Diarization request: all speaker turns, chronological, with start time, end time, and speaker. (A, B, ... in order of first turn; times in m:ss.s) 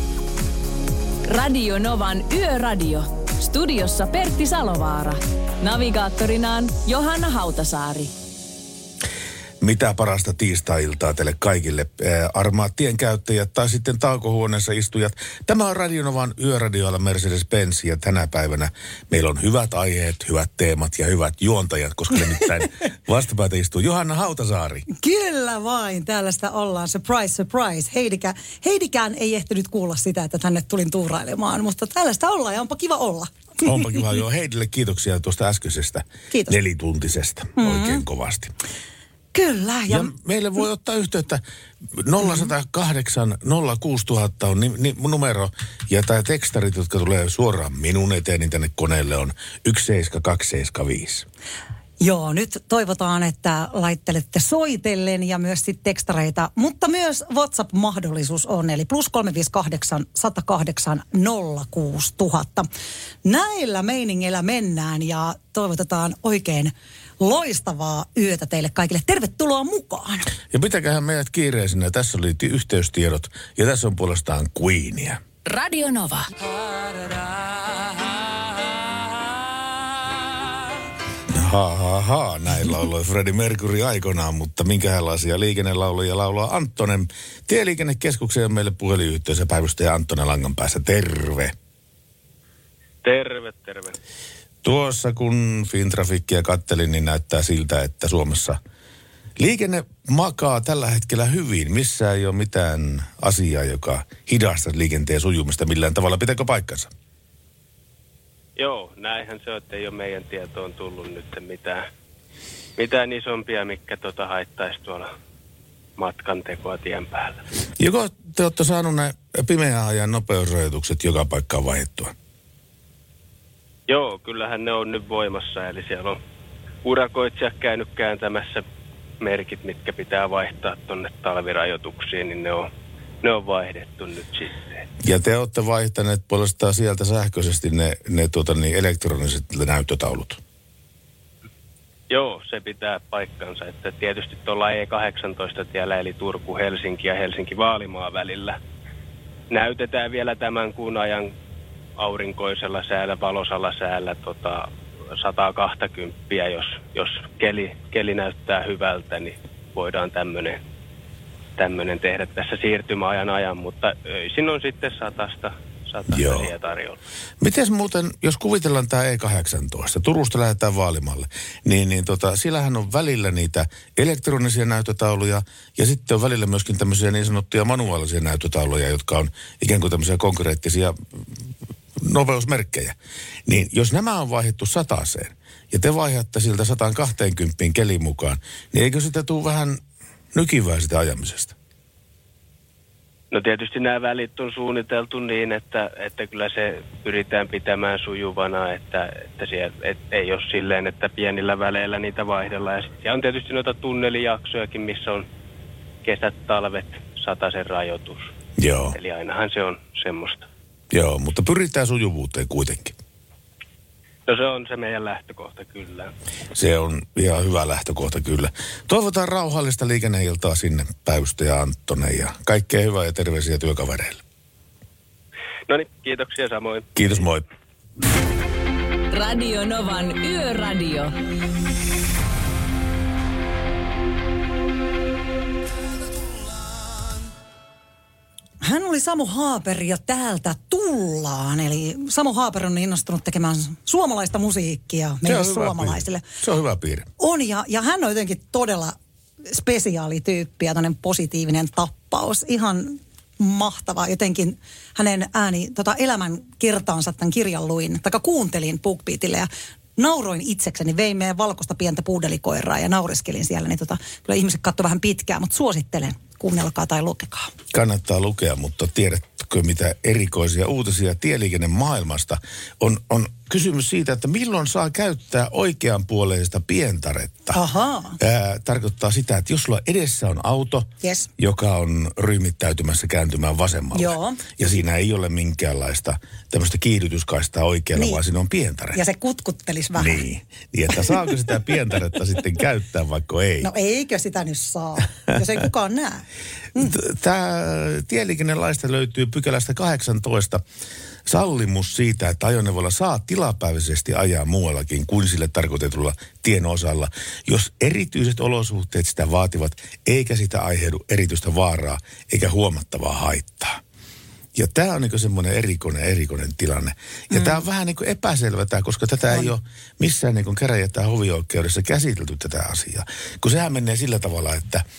0:01.3-0:08.1 A
0:09.6-0:24.9 B
0:24.9-0:33.8 C
0:33.6-0:38.5 B
0:36.3-0:36.6 C
0:37.6-0:38.0 C
0:39.3-0:40.1 C
0:39.9-0:51.3 B
0:42.2-0:42.5 C
0:52.0-1:02.7 C
1:03.2-1:10.3 C
1:10.5-1:15.2 B
1:15.5-1:16.3 A
1:21.3-1:31.6 B
1:33.0-1:34.0 D
1:34.6-1:38.6 B
1:39.4-1:46.9 B
1:48.6-1:51.9 D
1:52.8-1:55.1 D
1:56.0-1:57.4 D
1:57.8-2:02.1 B
2:03.9-2:06.2 D
2:06.8-2:08.6 D
2:09.2-2:12.7 D
2:13.2-2:14.6 D
2:15.0-2:20.4 B
2:22.1-2:28.6 D
2:29.5-2:31.3 D
2:32.0-2:40.6 D
2:41.6-2:47.0 D
2:46.1-2:46.5 B
2:47.4-3:01.3 B
3:02.0-3:03.0 B
3:03.5-3:09.8 B
3:10.3-3:11.5 B
3:13.3-3:25.3 D
3:26.0-3:28.3 D
3:28.6-3:29.0 B
3:28.9-3:30.5 D
3:30.9-3:33.0 B
3:34.3-3:36.1 D
3:36.6-3:44.2 B
3:45.7-3:46.9 D
3:47.0-3:47.5 B
3:49.1-3:51.1 A
3:58.6-4:06.2 C
4:05.2-4:07.1 B
4:07.2-4:09.0 C
4:09.5-4:27.5 C
4:27.7-4:37.6 B
4:37.5-4:38.2 C
4:38.2-4:49.0 B
4:41.0-4:41.3 C
4:43.9-4:44.5 C
4:48.0-4:48.2 C
4:48.9-4:50.2 C
4:50.0-4:53.7 B
4:53.6-4:57.0 C
4:56.8-5:00.6 B
5:01.3-5:13.8 B
5:14.6-5:24.8 B
5:17.3-5:17.6 C